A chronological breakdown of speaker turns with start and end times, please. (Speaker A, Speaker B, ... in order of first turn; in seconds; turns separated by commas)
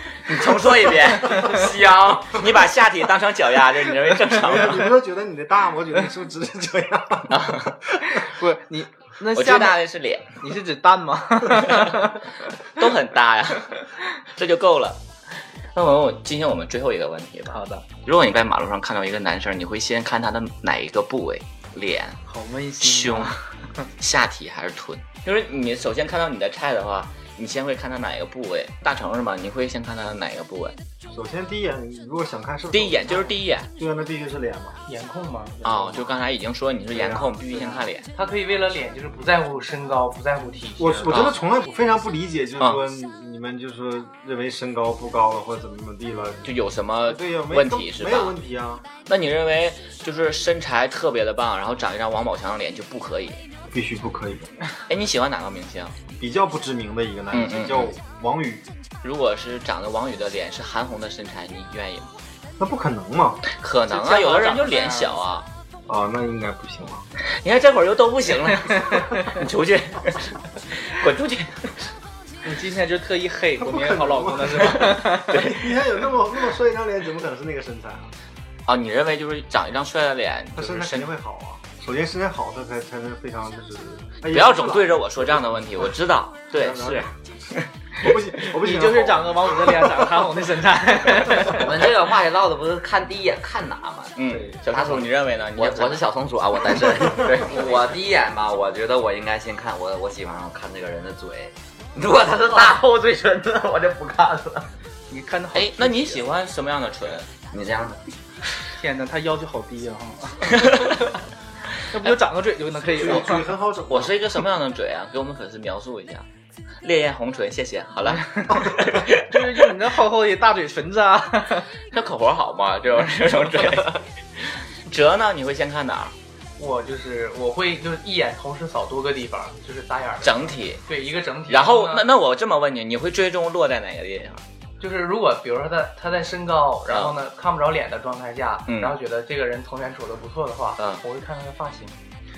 Speaker A: 0.3-1.7, Speaker B: 1.3-2.4, Speaker A: 2.3-4.9, Speaker C: 4.4-7.6, Speaker A: 7.3-7.8, Speaker D: 8.0-9.8, Speaker A: 9.3-10.3, Speaker D: 10.4-12.3, Speaker A: 12.8-13.8, Speaker A: 14.3-15.0, Speaker A: 15.8-22.2, Speaker D: 17.5-17.9, Speaker D: 22.3-23.4, Speaker A: 22.8-23.4, Speaker A: 24.0-30.8, Speaker C: 31.1-34.8, Speaker A: 32.7-33.7, Speaker E: 34.9-36.1, Speaker A: 35.6-38.1, Speaker C: 36.9-37.7, Speaker E: 38.1-41.3, Speaker C: 40.8-48.9, Speaker A: 41.1-41.4, Speaker A: 46.4-48.4, Speaker A: 49.1-53.4, Speaker C: 53.7-54.5, Speaker A: 54.9-56.0, Speaker C: 56.1-58.7, Speaker A: 57.3-57.9, Speaker A: 59.0-62.1, Speaker C: 62.6-63.4, Speaker A: 63.5-65.5, Speaker D: 63.9-65.2, Speaker C: 65.9-67.1, Speaker A: 67.4-71.8, Speaker D: 72.4-75.3, Speaker C: 73.6-78.1, Speaker A: 75.0-75.8, Speaker A: 78.7-81.1, Speaker C: 80.5-85.6, Speaker A: 84.3-87.6, Speaker C: 86.5-87.1, Speaker C: 88.0-90.0, Speaker D: 88.6-91.7, Speaker B: 91.5-94.1, Speaker A: 94.2-96.0, Speaker C: 94.3-94.6, Speaker B: 94.7-104.7, Speaker A: 97.2-97.7, Speaker D: 105.1-106.2, Speaker A: 105.5-107.3, Speaker B: 107.5-108.0, Speaker D: 108.8-110.9, Speaker A: 110.5-111.0, Speaker D: 111.9-113.4, Speaker C: 112.9-114.2, Speaker A: 113.0-113.3, Speaker A: 113.9-116.2, Speaker A: 116.8-119.4, Speaker D: 118.1-121.7, Speaker A: 121.9-126.1, Speaker E: 126.6-132.1, Speaker A: 130.2-130.8, Speaker A: 131.5-134.4, Speaker E: 134.8-142.0, Speaker A: 136.9-137.1, Speaker A: 138.7-138.9, Speaker A: 140.8-141.0